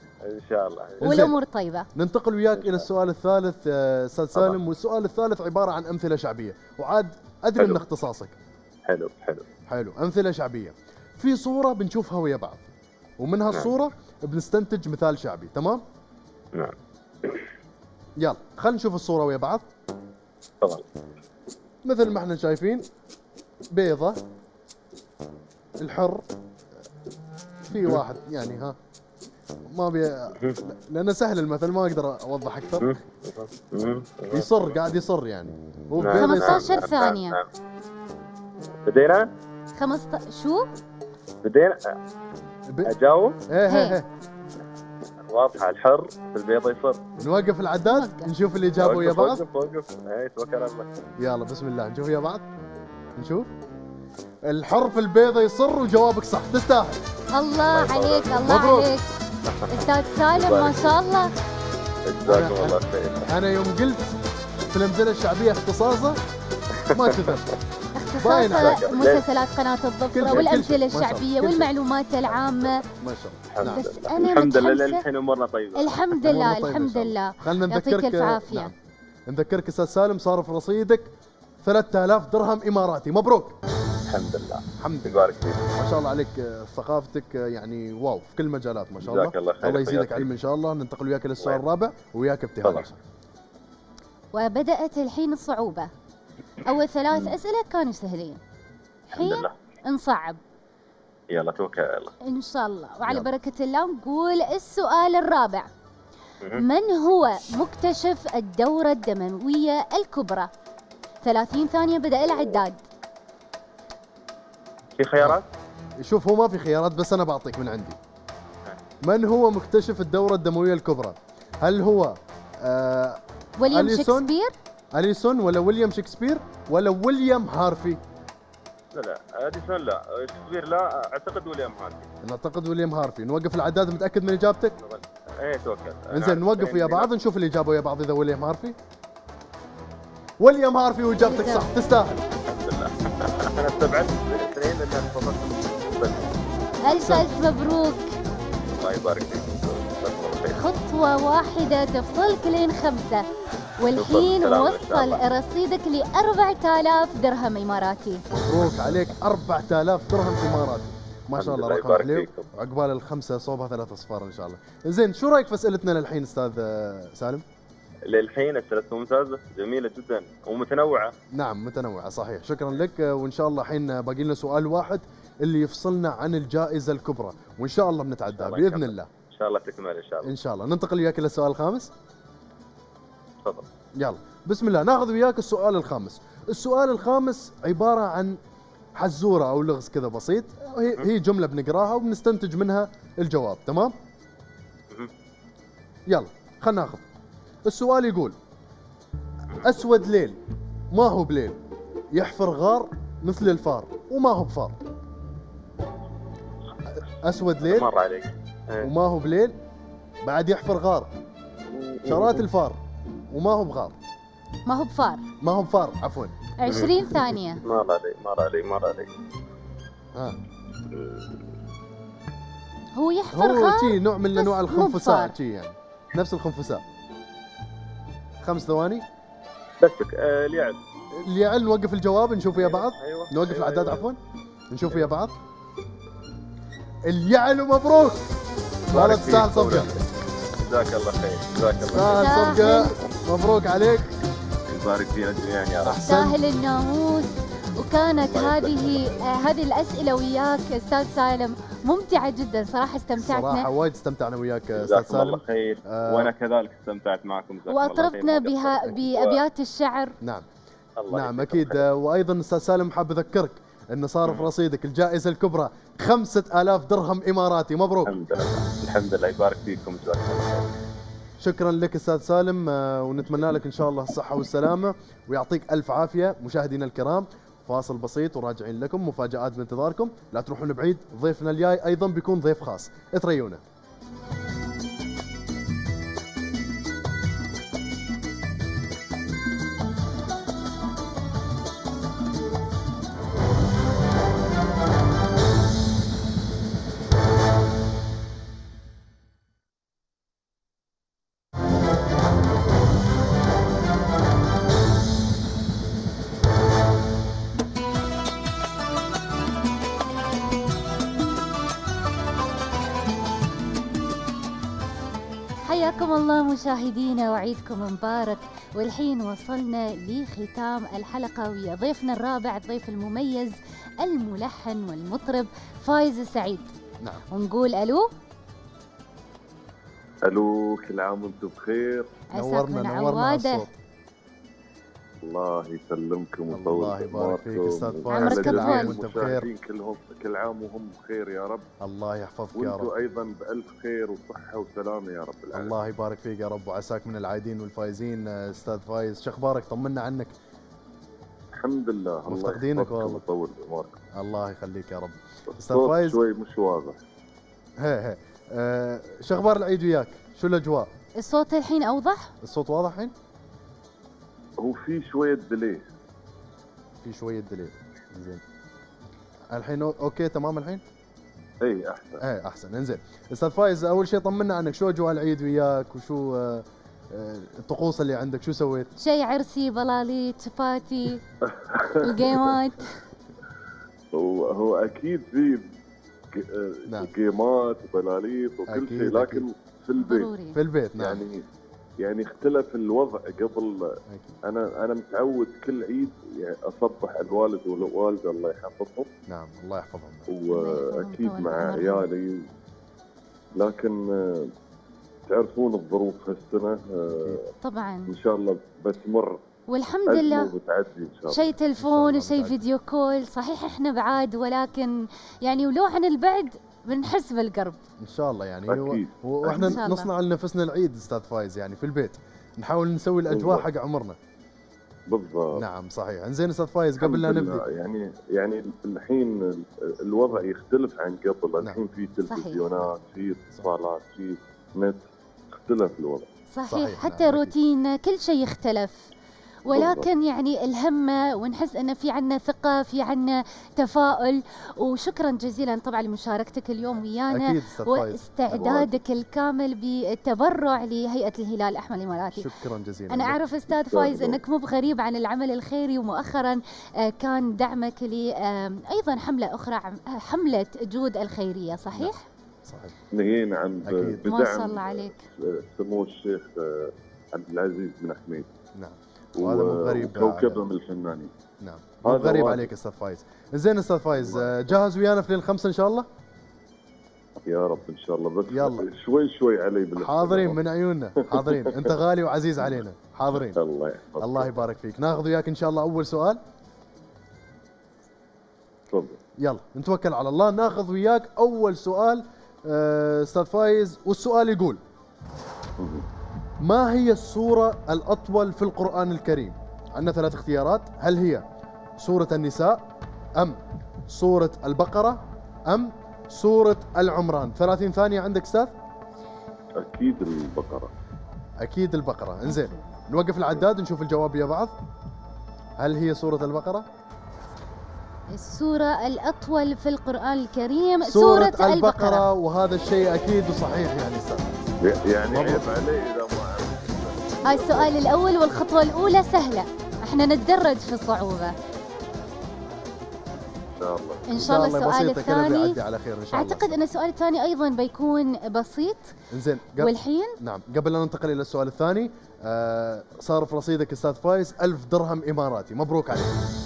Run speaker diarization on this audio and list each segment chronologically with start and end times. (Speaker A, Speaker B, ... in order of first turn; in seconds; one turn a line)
Speaker A: 0.3-1.0
Speaker B: 1.0-1.4
Speaker C: 1.0-1.9
Speaker B: 1.9-8.3
Speaker A: 2.6-2.8
Speaker A: 8.9-9.4
Speaker B: 9.7-15.8
Speaker A: 16.5-17.4
Speaker B: 18.2-19.6
Speaker B: 21.9-22.9
Speaker B: 23.7-24.2
Speaker B: 25.8-26.2
Speaker B: 27.7-28.8
Speaker B: 29.7-33.0
Speaker A: 32.8-34.6
Speaker B: 34.3-36.8
Speaker A: 36.0-37.5
Speaker C: 36.1-37.4
Speaker A: 38.9-39.3
Speaker C: 39.8-40.7
Speaker A: 41.4-41.8
Speaker B: 42.7-42.9
Speaker A: 42.8-43.4
Speaker B: 43.5-44.1
Speaker C: 43.7-44.0
Speaker A: 45.3-47.0
Speaker B: 47.2-49.4
Speaker C: 47.9-48.3
Speaker A: 48.8-50.9
Speaker B: 51.2-52.5
Speaker B: 53.2-53.5
Speaker B: 54.4-57.0
Speaker C: 57.3-59.1
Speaker A: 57.7-58.5
Speaker B: 58.5-58.9
Speaker C: 59.7-61.3
Speaker A: 60.3-61.0
Speaker A: 62.1-63.3
Speaker B: 62.2-64.1
Speaker B: 64.7-66.2
Speaker B: 66.9-67.5
Speaker A: 66.9-67.4
Speaker C: 68.0-72.8
Speaker B: 68.2-68.9
Speaker A: 68.4-69.2
Speaker B: 70.1-71.7
Speaker B: 72.9-73.9
Speaker A: 73.5-76.0
Speaker C: 73.6-75.0
Speaker C: 75.8-78.7
Speaker B: 76.2-78.7
Speaker B: 79.3-81.1
Speaker B: 81.6-83.6
Speaker A: 84.1-85.6
Speaker B: 84.8-93.0
Speaker A: 89.0-90.3
Speaker C: 94.3-95.9
Speaker C: 96.7-98.4
Speaker A: 99.1-99.6
Speaker C: 99.1-100.4
Speaker A: 101.3-102.1
Speaker C: 102.2-105.7
Speaker C: 106.5-110.5
Speaker C: 111.2-112.8
Speaker A: 115.0-115.5
Speaker B: 116.0-118.0
Speaker B: 119.0-124.3
Speaker C: 123.6-124.5
Speaker B: 124.9-128.0
Speaker A: 128.9-132.1
Speaker B: 132.2-134.8
Speaker A: 134.8-137.1
Speaker B: 136.1-138.8
Speaker B: 140.4-142.2
Speaker C: 141.2-141.7
Speaker A: 142.3-146.4
Speaker C: 146.9-148.1
Speaker B: 146.9-147.3
Speaker A: 148.7-150.6
Speaker C: 150.6-153.2
Speaker C: 153.8-158.2
Speaker A: 153.9-155.2
Speaker B: 158.3-167.4
Speaker A: 161.4-162.5
Speaker A: 168.1-171.1
Speaker B: 171.3-179.1
Speaker A: 178.3-180.3
Speaker B: 180.2-181.9
Speaker B: 184.0-188.4
Speaker B: 188.9-193.9
Speaker B: 196.1-197.1
Speaker B: 197.7-198.4
Speaker B: 199.6-200.4
Speaker B: 200.9-201.6
Speaker B: 202.1-204.8
Speaker B: 207.2-207.9
Speaker A: 207.6-208.9
Speaker B: 208.8-209.6
Speaker B: 210.2-211.1
Speaker A: 211.7-212.4
Speaker B: 212.1-212.8
Speaker B: 213.3-214.0
Speaker C: 214.7-215.3
Speaker B: 215.4-216.4
Speaker C: 216.6-217.6
Speaker A: 217.6-219.1
Speaker A: 220.9-221.3
Speaker C: 223.0-225.3
Speaker B: 223.3-226.8
Speaker B: 228.4-229.1
Speaker A: 229.8-230.8
Speaker B: 231.2-234.2
Speaker A: 232.6-234.1
Speaker B: 234.7-235.4
Speaker B: 237.1-238.3
Speaker A: 238.9-240.1
Speaker B: 238.9-239.9
Speaker A: 240.6-242.8
Speaker B: 241.8-244.1
Speaker C: 242.0-243.0
Speaker A: 244.7-246.0
Speaker B: 245.8-246.4
Speaker C: 246.1-253.7
Speaker A: 248.2-249.2
Speaker B: 253.2-256.3
Speaker A: 254.8-259.4
Speaker C: 257.7-260.2
Speaker B: 260.2-260.5
Speaker A: 261.0-261.9
Speaker B: 261.1-268.1
Speaker A: 268.1-270.7
Speaker B: 271.4-283.6
Speaker C: 315.6-326.7
Speaker C: 327.3-328.1
Speaker D: 330.3-332.1
Speaker B: 332.3-333.7
Speaker C: 332.4-333.7
Speaker D: 335.2-341.7
Speaker B: 336.5-339.5
Speaker C: 338.1-339.0
Speaker B: 341.8-342.9
Speaker D: 342.5-345.7
Speaker B: 345.5-350.4
Speaker D: 351.6-354.0
Speaker B: 352.3-353.2
Speaker B: 354.1-356.2
Speaker D: 355.5-357.0
Speaker B: 357.8-360.9
Speaker C: 361.2-362.3
Speaker B: 362.4-363.1
Speaker D: 364.6-365.9
Speaker B: 367.0-368.4
Speaker B: 369.5-370.9
Speaker D: 371.6-372.2
Speaker B: 372.2-378.9
Speaker C: 379.0-381.2
Speaker D: 381.4-382.5
Speaker C: 382.0-382.9
Speaker D: 384.1-385.7
Speaker D: 386.3-390.3
Speaker B: 388.7-389.4
Speaker C: 390.0-390.6
Speaker B: 390.5-391.2
Speaker D: 391.0-391.4
Speaker D: 392.0-393.9
Speaker B: 394.1-394.4
Speaker D: 394.4-399.1
Speaker B: 399.3-400.3
Speaker D: 400.3-402.4
Speaker C: 400.5-402.1
Speaker D: 403.6-404.5
Speaker D: 405.3-407.5
Speaker B: 407.1-407.4
Speaker C: 407.6-408.1
Speaker D: 408.1-409.4
Speaker C: 409.7-410.5
Speaker D: 410.1-411.5
Speaker C: 411.3-417.8
Speaker B: 411.8-412.6
Speaker B: 418.0-424.2
Speaker D: 418.7-419.8
Speaker C: 419.4-420.1
Speaker D: 423.3-423.7
Speaker D: 425.1-425.6
Speaker B: 425.6-427.6
Speaker D: 427.0-436.3
Speaker C: 432.3-432.6
Speaker C: 436.5-439.1
Speaker B: 436.7-437.6
Speaker C: 439.7-452.5
Speaker D: 439.7-440.1
Speaker B: 447.3-448.9
Speaker B: 452.3-453.4
Speaker C: 453.1-462.3
Speaker D: 453.8-454.4
Speaker B: 462.6-463.0
Speaker D: 463.1-468.5
Speaker B: 463.8-464.2
Speaker C: 464.2-465.3
Speaker B: 468.8-470.6
Speaker D: 469.4-471.3
Speaker B: 471.6-476.1
Speaker D: 472.0-472.7
Speaker D: 474.2-474.6
Speaker D: 477.4-480.6
Speaker B: 478.5-478.9
Speaker B: 480.0-483.6
Speaker D: 481.2-482.0
Speaker D: 483.3-484.6
Speaker B: 484.2-486.4
Speaker D: 488.9-489.2
Speaker B: 489.4-494.8
Speaker D: 495.8-496.1
Speaker B: 496.6-501.4
Speaker B: 502.0-508.7
Speaker D: 509.8-510.9
Speaker B: 511.6-514.8
Speaker B: 515.8-516.9
Speaker C: 518.3-522.2
Speaker B: 521.0-524.5
Speaker D: 524.8-528.1
Speaker B: 525.3-525.7
Speaker C: 527.5-531.5
Speaker D: 533.8-534.3
Speaker C: 534.3-535.8
Speaker B: 534.3-536.8
Speaker C: 536.3-539.1
Speaker B: 539.3-546.4
Speaker C: 539.8-540.4